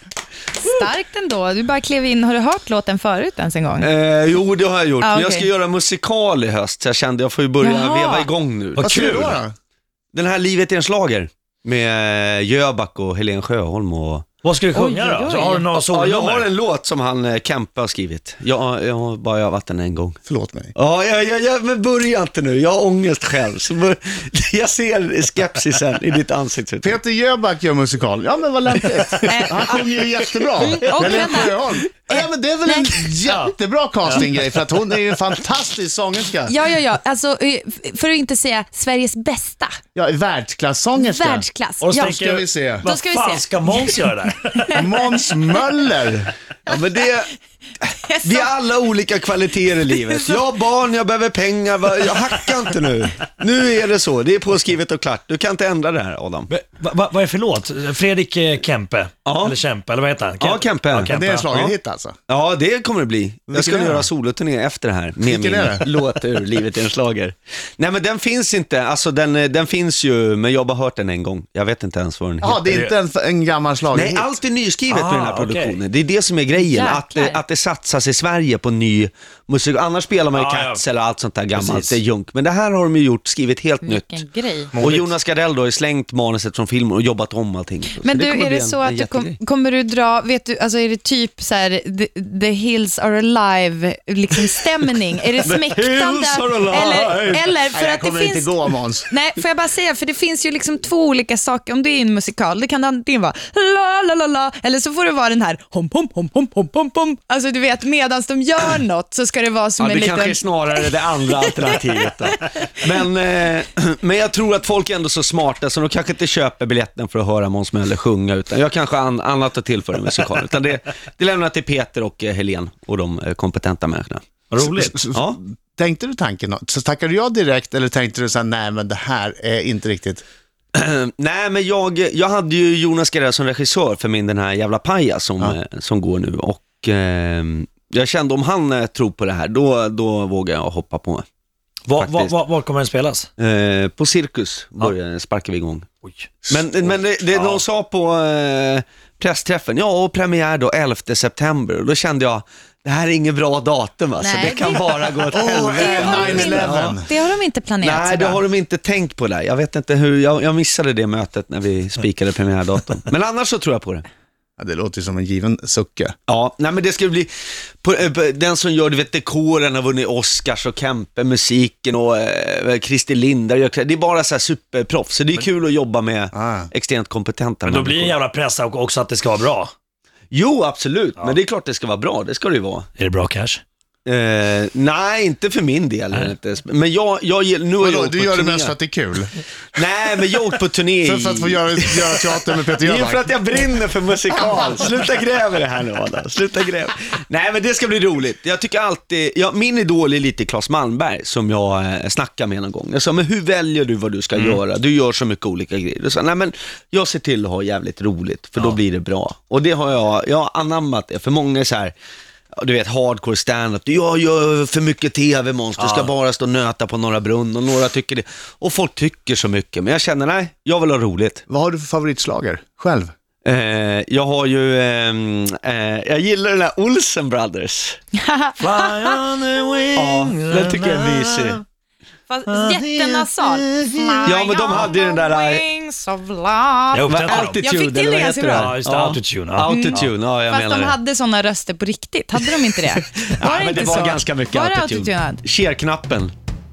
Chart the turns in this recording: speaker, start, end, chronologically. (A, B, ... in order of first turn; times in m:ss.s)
0:00.6-0:03.9 A
0:03.8-0:09.4 B
0:05.0-0:05.5 A
0:07.6-0:08.3 A
0:08.8-0:09.5 C
0:08.8-0:09.4 D
0:10.1-0:14.3 B
0:14.4-0:16.5 D
0:14.7-0:15.6 A
0:15.9-0:20.2 B
0:20.2-0:20.7 C
0:20.7-0:27.0 B
0:26.8-0:36.5 C
0:29.2-0:29.8 A
0:30.6-0:33.0 A
0:33.2-0:33.5 D
0:36.5-0:39.8 A
0:39.9-0:42.8 C
0:41.0-0:42.2 A
0:41.8-0:44.8 D
0:42.8-0:45.3 A
0:44.7-0:46.3 C
0:46.6-0:47.3 B
0:48.0-0:48.5 A
0:48.2-0:56.5 B
0:56.5-1:01.5 D
0:59.2-0:59.6 B
1:00.4-1:01.7 B
1:01.0-1:02.1 C
1:02.3-1:12.6 B
1:03.5-1:04.1 C
1:05.2-1:05.9 C
1:12.4-1:14.3 C
1:13.9-1:24.2 B
1:14.9-1:15.8 D
1:16.6-1:17.4 A
1:20.3-1:20.8 D
1:21.5-1:22.0 D
1:23.8-1:24.7 A
1:24.7-1:25.1 D
1:24.8-1:29.4 B
1:28.0-1:38.5 A
1:35.4-1:37.4 B
1:37.7-1:39.1 C
1:39.1-1:50.4 A
1:49.8-2:04.2 B
1:51.4-1:51.8 A
2:04.5-2:05.0 D
2:04.6-2:10.2 C
2:05.1-2:05.4 B
2:10.7-2:21.2 B
2:21.8-2:23.3 D
2:22.0-2:22.3 B
2:23.4-2:25.9 B
2:26.4-2:26.8 C
2:26.5-2:37.0 B
2:34.2-2:38.4 A
2:35.3-2:37.1 C
2:37.8-2:44.0 B
2:44.6-2:46.1 C
2:46.3-2:58.2 B
2:56.3-2:56.7 C
2:57.6-2:59.7 D
3:00.3-3:02.9 B
3:03.0-3:03.6 D
3:04.0-3:08.7 B
3:07.8-3:09.3 C
3:09.7-3:31.9 B
3:11.0-3:13.2 C
3:24.3-3:24.6 D
3:32.5-3:41.4 B
3:35.8-3:36.1 D
3:41.5-3:43.1 C
3:43.4-3:48.0 B
3:48.2-3:49.2 A
3:48.6-3:51.6 D
3:49.9-3:51.6 B
3:52.3-3:58.7 A
3:52.5-3:54.3 D
3:54.2-3:55.6 B
3:56.9-3:57.6 D
3:57.1-4:01.0 B
3:58.5-4:00.1 D
3:59.6-4:05.4 A
4:03.0-4:06.3 B